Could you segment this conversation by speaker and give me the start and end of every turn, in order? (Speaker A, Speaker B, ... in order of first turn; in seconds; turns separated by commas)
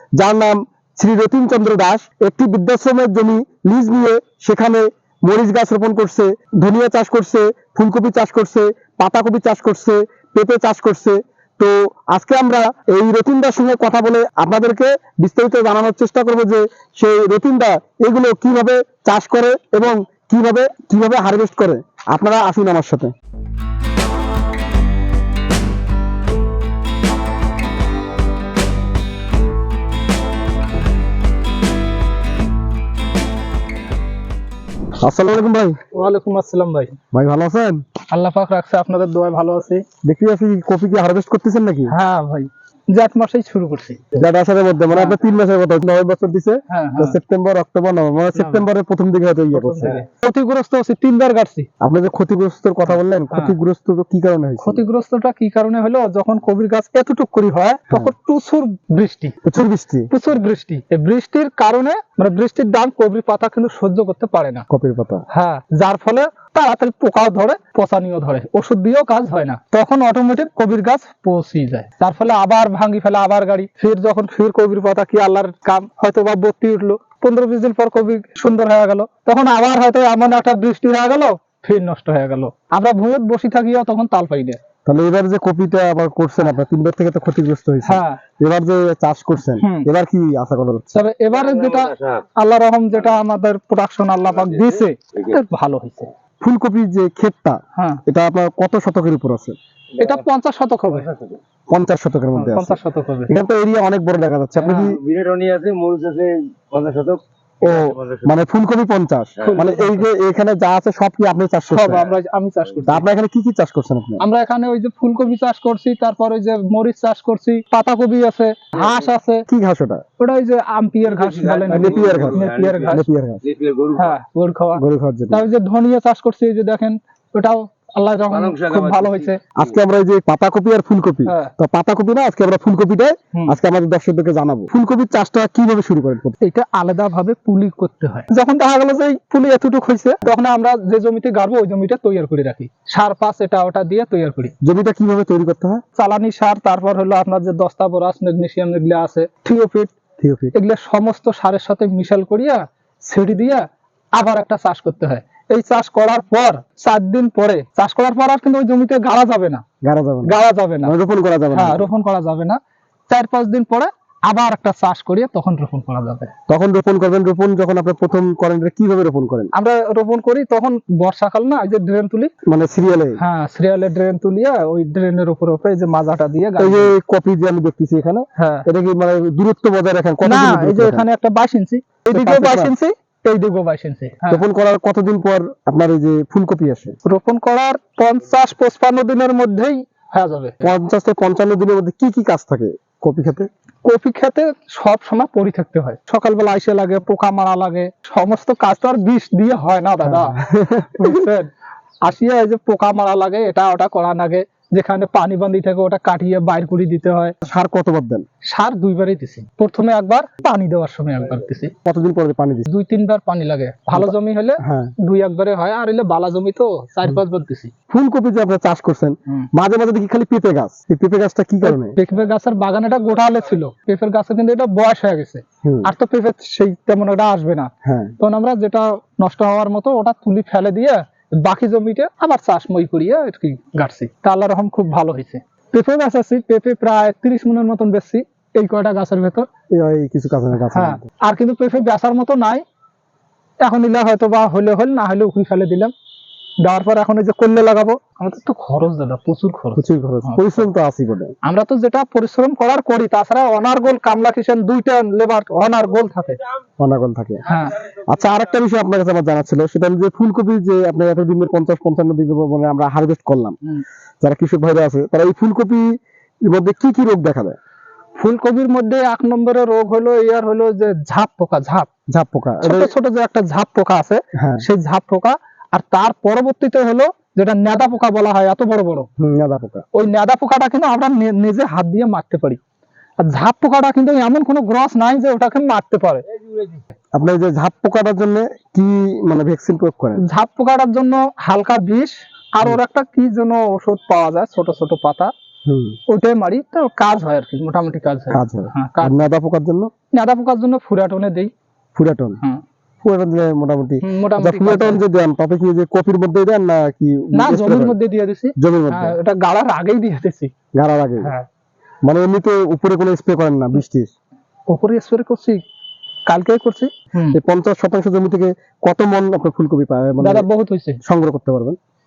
Speaker A: 0.2-23.1, Speaker A: 35.0-35.8, Speaker B: 35.9-37.0, Speaker A: 37.1-37.8, Speaker B: 38.1-39.9, Speaker A: 40.0-41.9, Speaker B: 41.9-44.1, Speaker A: 44.1-50.0, Speaker B: 44.9-45.2, Speaker B: 46.7-47.2, Speaker B: 48.4-48.7, Speaker B: 49.5-51.7, Speaker A: 51.8-54.8, Speaker B: 52.9-53.6, Speaker B: 54.6-59.4, Speaker A: 59.4-60.1, Speaker B: 60.1-64.7, Speaker A: 64.7-65.2, Speaker B: 65.3-84.6, Speaker A: 84.8-91.0, Speaker B: 87.8-88.2, Speaker B: 89.5-89.9, Speaker B: 91.0-96.1, Speaker C: 91.3-92.2, Speaker C: 94.3-95.4, Speaker A: 96.4-99.6, Speaker B: 97.8-98.0, Speaker C: 100.0-100.2, Speaker B: 100.0-101.1, Speaker C: 100.9-101.4, Speaker A: 101.7-105.0, Speaker B: 102.3-103.3, Speaker B: 104.6-105.0, Speaker C: 104.7-108.4, Speaker A: 107.6-112.0, Speaker C: 109.4-109.7, Speaker B: 109.4-110.1, Speaker B: 111.7-113.0, Speaker A: 112.9-114.2, Speaker B: 114.2-119.5, Speaker C: 118.8-119.1, Speaker A: 119.5-120.0, Speaker B: 120.2-123.1, Speaker C: 121.0-124.2, Speaker A: 121.7-123.4, Speaker B: 124.0-129.4, Speaker A: 124.8-125.5, Speaker C: 128.3-129.8, Speaker A: 129.6-136.4, Speaker B: 131.3-131.5, Speaker B: 136.4-144.5, Speaker A: 144.6-145.8, Speaker B: 146.0-149.9, Speaker A: 150.2-150.5, Speaker B: 150.5-159.6, Speaker A: 159.8-161.9, Speaker B: 160.3-160.9, Speaker B: 161.5-162.6, Speaker B: 163.1-166.3, Speaker A: 166.5-169.5, Speaker B: 169.5-172.3, Speaker A: 172.5-173.2, Speaker B: 173.2-176.9, Speaker A: 176.6-181.1, Speaker B: 178.4-178.7, Speaker B: 180.2-184.4, Speaker A: 182.1-182.7, Speaker A: 184.3-186.9, Speaker B: 187.0-190.7, Speaker A: 190.6-193.5, Speaker B: 193.8-200.4, Speaker A: 200.0-201.2, Speaker B: 201.0-201.5, Speaker B: 202.0-207.4, Speaker A: 207.5-208.2, Speaker B: 208.5-211.7, Speaker A: 211.8-212.7, Speaker B: 212.7-217.7, Speaker A: 213.9-214.9, Speaker A: 217.9-222.0, Speaker B: 221.6-239.5, Speaker A: 225.6-225.9, Speaker A: 227.8-228.2, Speaker A: 239.7-241.0, Speaker B: 240.6-242.6, Speaker B: 243.6-245.9, Speaker B: 246.6-250.7, Speaker A: 249.8-251.3, Speaker B: 251.4-256.4, Speaker A: 256.8-263.6, Speaker B: 257.4-257.8, Speaker A: 264.2-265.9, Speaker A: 266.5-267.6, Speaker B: 268.2-271.9, Speaker A: 272.1-272.9, Speaker B: 272.6-279.1, Speaker A: 274.4-274.6, Speaker A: 279.2-279.9, Speaker B: 279.9-282.6, Speaker B: 283.2-286.2, Speaker C: 286.3-286.8, Speaker A: 287.1-290.2, Speaker B: 290.2-295.3, Speaker A: 295.7-296.0, Speaker B: 296.1-299.3, Speaker A: 298.3-299.9, Speaker B: 300.1-301.5, Speaker A: 302.0-302.4, Speaker A: 303.0-308.0, Speaker B: 304.0-305.0, Speaker B: 307.4-310.5, Speaker A: 308.6-309.2, Speaker A: 310.8-311.3, Speaker B: 311.2-311.5, Speaker A: 312.1-314.1, Speaker B: 314.7-315.6, Speaker B: 316.3-317.4, Speaker A: 317.3-320.5, Speaker B: 320.2-321.0, Speaker A: 321.0-321.8